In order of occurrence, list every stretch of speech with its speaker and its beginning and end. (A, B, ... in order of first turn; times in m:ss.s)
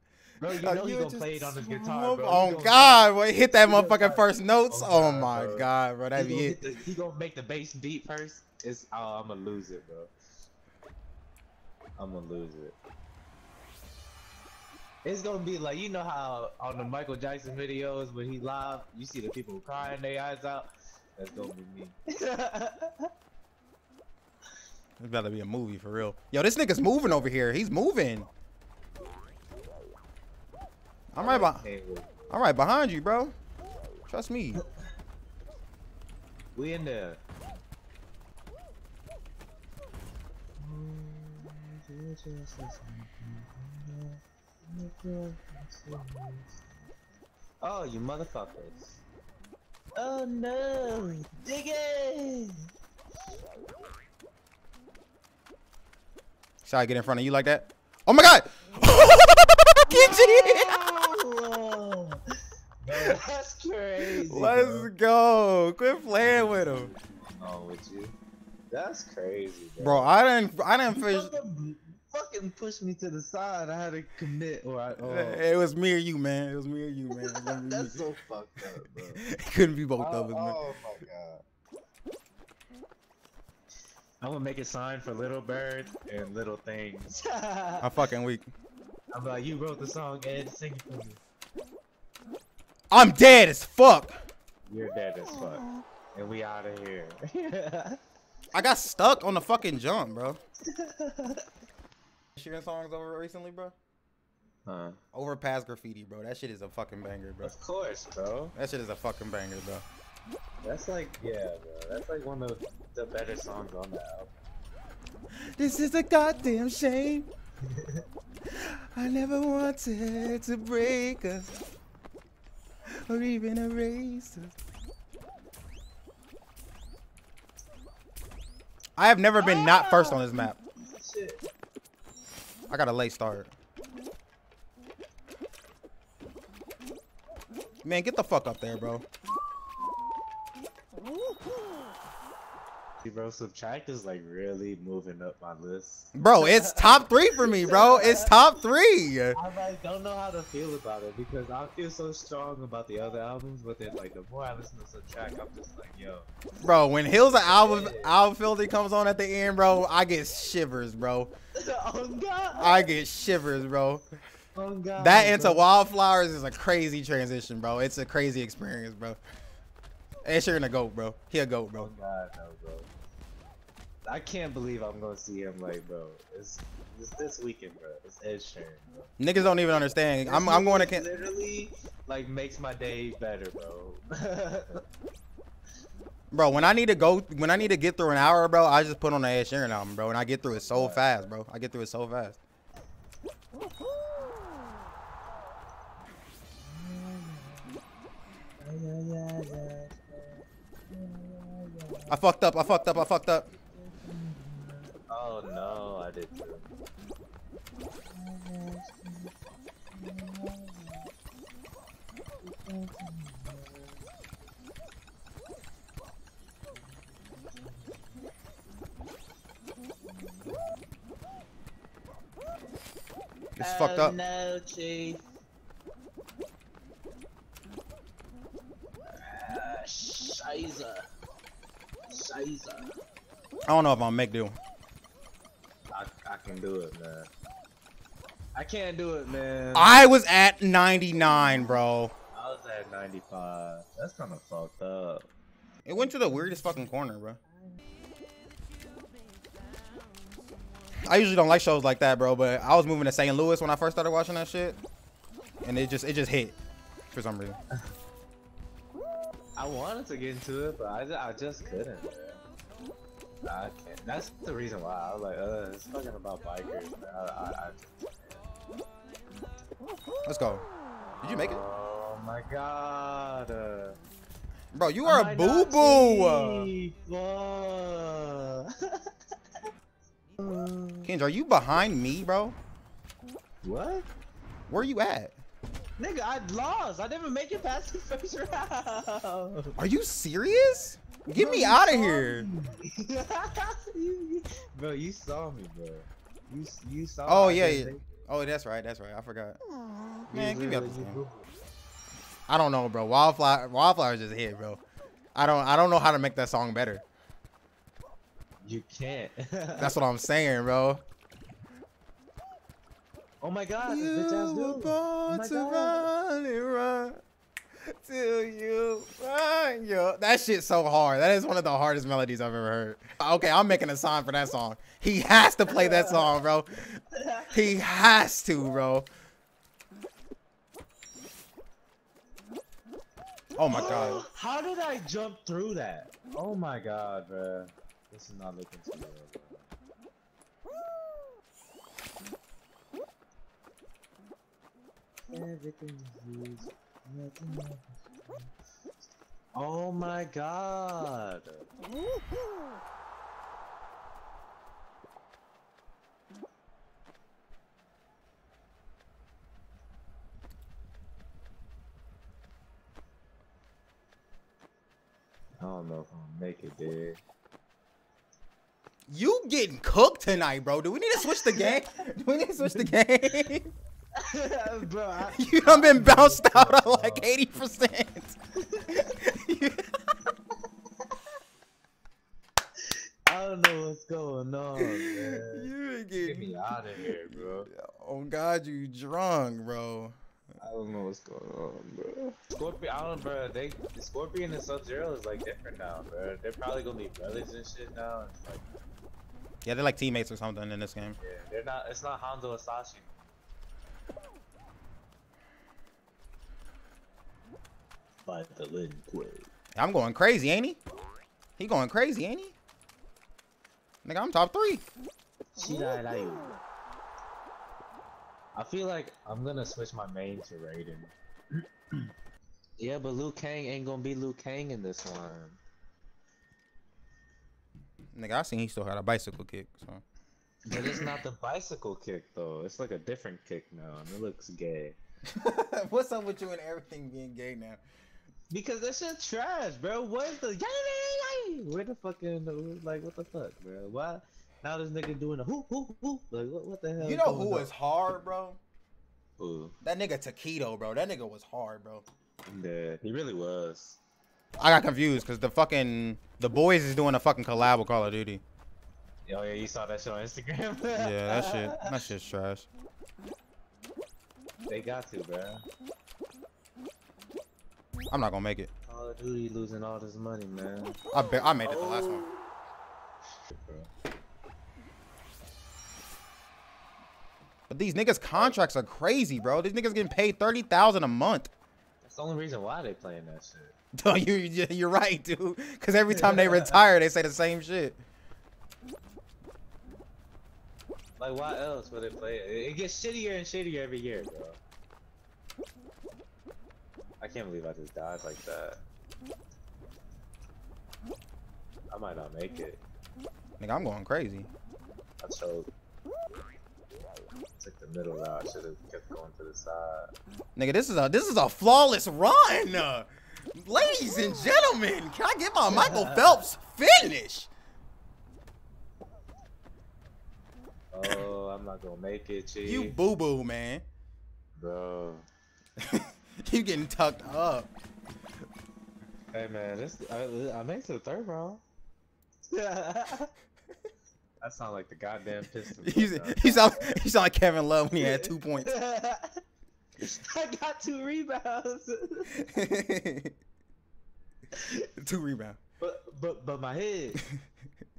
0:00.4-0:03.0 A
0:00.5-0:06.6 B
0:03.7-0:10.1 A
0:12.0-0:12.8 A
0:15.0-0:23.1 A
0:25.0-0:28.3 B
0:31.1-0:31.6 B
0:31.2-0:32.4 A
0:32.3-0:33.3 B
0:34.1-0:34.6 B
0:36.6-0:37.2 A
0:40.6-0:46.6 A
0:47.6-0:49.0 A
0:50.0-0:52.6 A
0:56.6-1:00.7 B
0:59.9-1:02.2 A
1:02.8-1:04.9 A
1:04.1-1:06.9 B
1:06.2-1:08.2 A
1:08.7-1:10.1 A
1:09.8-1:11.3 B
1:10.9-1:15.5 A
1:15.0-1:18.1 B
1:17.1-1:19.2 A
1:19.2-1:20.6 B
1:20.0-1:21.4 A
1:24.2-1:27.9 A
1:27.8-1:28.5 B
1:29.1-1:31.2 A
1:32.9-1:34.2 B
1:34.7-1:38.0 A
1:38.5-1:40.4 B
1:40.7-1:41.5 A
1:42.4-1:43.7 B
1:44.7-1:45.0 A
1:45.1-1:47.5 B
1:47.4-1:48.5 A
1:48.6-1:49.8 B
1:50.6-1:54.4 A
1:55.6-1:57.3 B
1:57.6-1:58.0 A
1:58.5-2:01.6 B
2:02.9-2:04.5 B
2:09.0-2:10.5 B
2:09.4-2:11.4 A
2:12.7-2:13.5 B
2:17.8-2:19.0 B
2:23.0-2:28.3 A
2:26.2-2:29.4 B
2:29.3-2:36.3 A
2:36.6-2:41.3 B
2:37.4-2:38.2 A
2:41.6-2:43.0 A
2:42.6-2:44.0 B
2:44.5-2:45.7 A
2:45.0-2:49.2 B
2:50.2-2:51.9 B
2:51.8-2:52.9 A
2:54.0-2:59.1 A
2:59.2-3:01.0 B
3:00.2-3:04.8 A
3:06.3-3:12.4 B
3:10.6-3:11.3 A
3:13.7-3:14.3 A
3:16.6-3:17.8 A
3:18.6-3:22.2 A
3:22.1-3:23.5 B
3:23.7-3:26.7 A
3:28.1-3:29.3 A
3:29.9-3:31.1 A
3:32.4-3:34.0 A
3:37.2-3:38.1 A
3:40.0-3:40.8 A
3:43.6-3:44.2 B
3:43.6-3:45.2 A
3:49.1-3:51.1 A
3:52.1-3:53.0 A
3:53.7-3:54.6 B
3:55.9-3:57.3 A
3:58.5-4:00.0 A
3:59.8-4:02.1 B
4:02.3-4:05.3 A
4:05.8-4:07.4 B
4:06.4-4:06.7 A
4:11.0-4:14.8 B
4:15.6-4:16.5 B
4:17.1-4:17.6 B
4:19.6-4:22.4 A
4:23.4-4:28.4 A
4:30.2-4:30.6 B
4:31.2-4:34.0 A
4:31.2-4:31.6 B
4:34.7-4:36.7 B
4:35.0-4:39.1 A
4:40.4-4:41.1 A
4:41.0-4:42.6 B
4:43.6-4:44.1 A
4:44.7-4:45.4 B
4:46.0-4:49.8 A
4:49.8-4:52.5 B
4:51.3-4:58.2 A
4:57.2-4:59.6 B
5:00.3-5:01.5 A
5:00.3-5:01.2 B
5:02.5-5:04.8 B
5:05.4-5:07.0 B
5:08.6-5:10.0 A
5:09.8-5:11.0 B
5:13.4-5:16.1 A
5:13.9-5:17.2 B
5:17.8-5:29.1 B
5:25.8-5:26.1 A
5:27.1-5:27.5 A
5:33.6-5:34.2 B
5:33.7-5:39.7 A
5:45.3-5:48.5 A
5:49.5-5:51.7 A
6:05.6-6:07.2 A
6:09.1-6:13.7 B
6:11.4-6:11.8 A
6:12.6-6:13.0 A
6:14.2-6:17.3 A
6:15.4-6:18.4 B
6:18.6-6:19.1 A
6:18.9-6:19.9 B
6:23.3-6:27.7 A
6:24.8-6:30.2 B
6:30.6-6:38.6 A
6:39.6-6:41.2 B
6:41.2-6:43.2 A
6:48.2-6:49.5 A
6:49.8-6:50.8 B
6:51.6-6:52.6 B
6:54.0-6:54.8 B
6:55.6-6:56.6 A
6:58.6-7:01.1 A
7:02.8-7:05.6 A
7:08.1-7:10.0 B
7:10.7-7:15.0 A
7:10.7-7:11.2 B
7:15.3-7:17.8 B
7:18.5-7:27.7 A
7:27.0-7:28.6 B
7:29.4-7:29.8 A
7:29.8-7:32.0 B
7:32.5-7:34.0 A
7:34.6-7:38.4 B
7:39.2-7:41.9 A
7:41.0-7:42.7 B
7:44.7-7:45.6 A
7:48.1-7:48.7 B
7:48.9-7:51.0 A
7:51.1-7:52.2 B
7:51.6-7:52.5 A
7:53.5-7:53.9 A
7:57.7-8:01.5 B
8:02.0-8:03.8 A
8:04.0-8:08.0 B
8:06.1-8:06.8 A
8:11.2-8:14.6 A
8:17.2-8:18.8 A
8:21.9-8:22.8 A
8:23.6-8:24.5 B
8:25.2-8:25.7 A
8:27.6-8:30.1 A
8:30.6-8:37.5 B
8:35.7-8:36.4 A
8:40.9-8:43.0 A
8:42.6-8:43.8 B
8:44.6-8:45.2 A
8:45.8-8:47.7 B
8:49.3-8:51.6 A
8:52.5-8:53.3 A
8:54.4-8:57.0 A
8:55.8-8:58.8 B
8:58.0-8:59.4 A
9:00.0-9:02.5 A
9:02.4-9:03.4 B
9:04.5-9:04.9 A
9:05.0-9:05.6 B
9:05.8-9:07.2 A